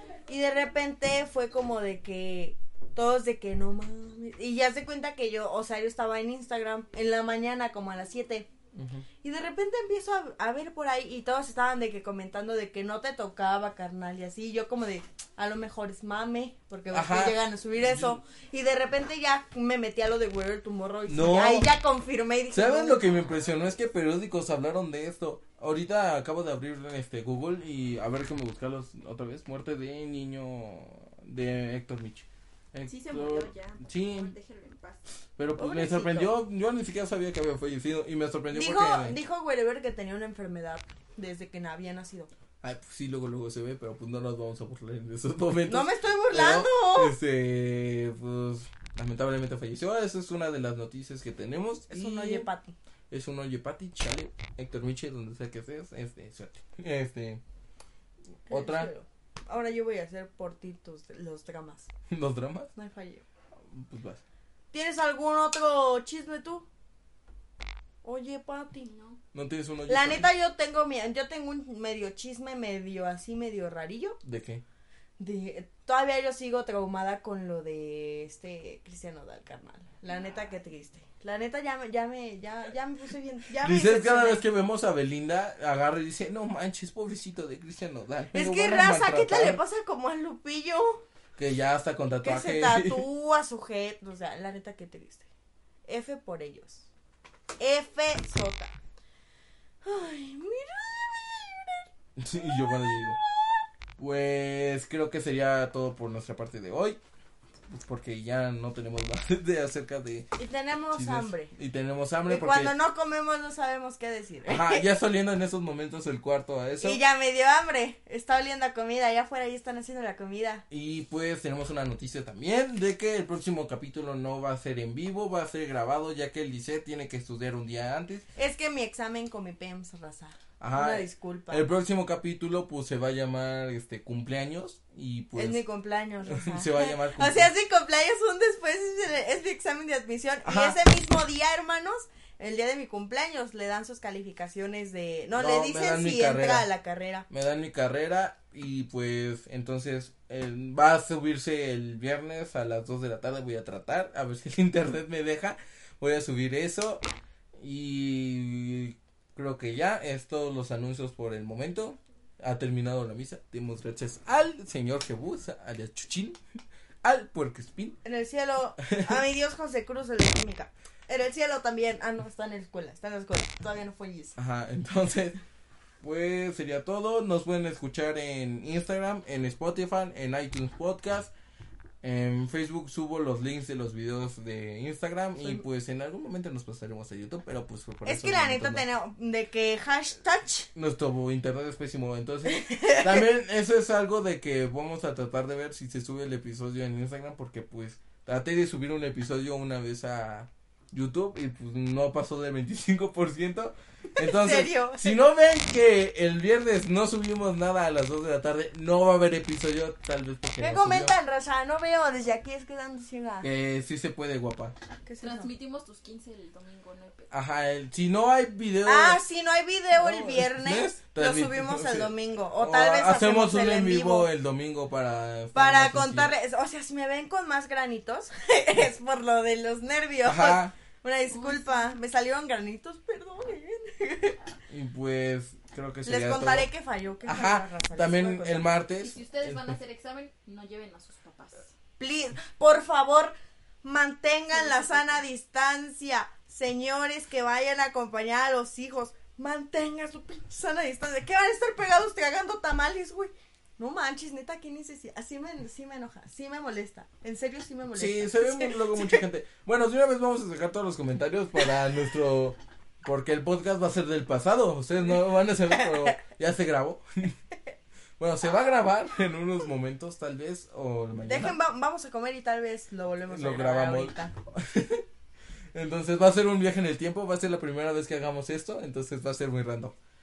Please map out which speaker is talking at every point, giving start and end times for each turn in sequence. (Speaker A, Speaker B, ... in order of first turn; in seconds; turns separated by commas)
Speaker A: 0.3-8.5, Speaker B: 8.7-9.0, Speaker A: 9.2-23.0, Speaker B: 16.9-18.2, Speaker B: 21.1-21.7, Speaker B: 22.5-34.3, Speaker C: 32.9-35.0, Speaker B: 35.4-39.2, Speaker A: 35.5-36.4, Speaker A: 38.5-42.3, Speaker B: 42.6-52.5, Speaker A: 45.7-47.1, Speaker A: 51.9-52.7, Speaker B: 53.1-57.4, Speaker B: 58.5-58.9, Speaker A: 58.5-61.9, Speaker B: 62.1-62.7, Speaker A: 62.7-63.2, Speaker B: 63.7-64.2, Speaker A: 64.7-66.7, Speaker A: 68.0-68.9, Speaker C: 68.8-69.2, Speaker B: 69.3-70.3, Speaker A: 69.9-74.2, Speaker B: 74.2-74.6, Speaker A: 75.2-84.4, Speaker B: 83.6-89.6, Speaker A: 88.3-91.0, Speaker B: 91.4-93.0, Speaker A: 92.2-95.3, Speaker A: 95.9-96.9, Speaker A: 97.6-98.8, Speaker A: 99.8-101.8, Speaker B: 102.2-103.2, Speaker A: 102.4-103.0, Speaker B: 104.0-107.0, Speaker B: 107.7-110.3, Speaker A: 110.4-111.5, Speaker B: 110.9-112.7, Speaker A: 112.3-114.8, Speaker B: 114.4-117.0, Speaker A: 116.8-120.6, Speaker B: 120.7-128.2, Speaker A: 128.3-131.6, Speaker B: 130.6-135.6, Speaker A: 135.3-147.3, Speaker B: 136.2-137.5, Speaker B: 140.4-140.8, Speaker B: 145.3-146.7, Speaker B: 147.3-157.0, Speaker B: 157.6-166.4, Speaker B: 167.0-168.0, Speaker A: 168.0-174.4, Speaker B: 168.8-169.2, Speaker B: 174.4-175.4, Speaker B: 176.0-181.3, Speaker B: 182.0-188.8, Speaker A: 188.0-190.7, Speaker B: 190.7-211.1, Speaker A: 192.4-193.2, Speaker A: 204.1-205.2, Speaker A: 210.6-213.5, Speaker B: 213.4-214.7, Speaker A: 215.1-215.5, Speaker C: 215.2-217.3, Speaker B: 217.3-219.2, Speaker A: 218.8-224.3, Speaker B: 219.9-226.3, Speaker A: 225.5-234.4, Speaker B: 230.2-230.7, Speaker C: 231.3-231.7, Speaker B: 234.7-236.7, Speaker A: 236.0-238.7, Speaker B: 237.2-239.8, Speaker C: 239.0-241.7, Speaker A: 242.0-259.2, Speaker B: 257.9-267.3, Speaker B: 268.2-271.6, Speaker A: 271.2-274.3, Speaker B: 273.3-275.0, Speaker B: 275.7-279.9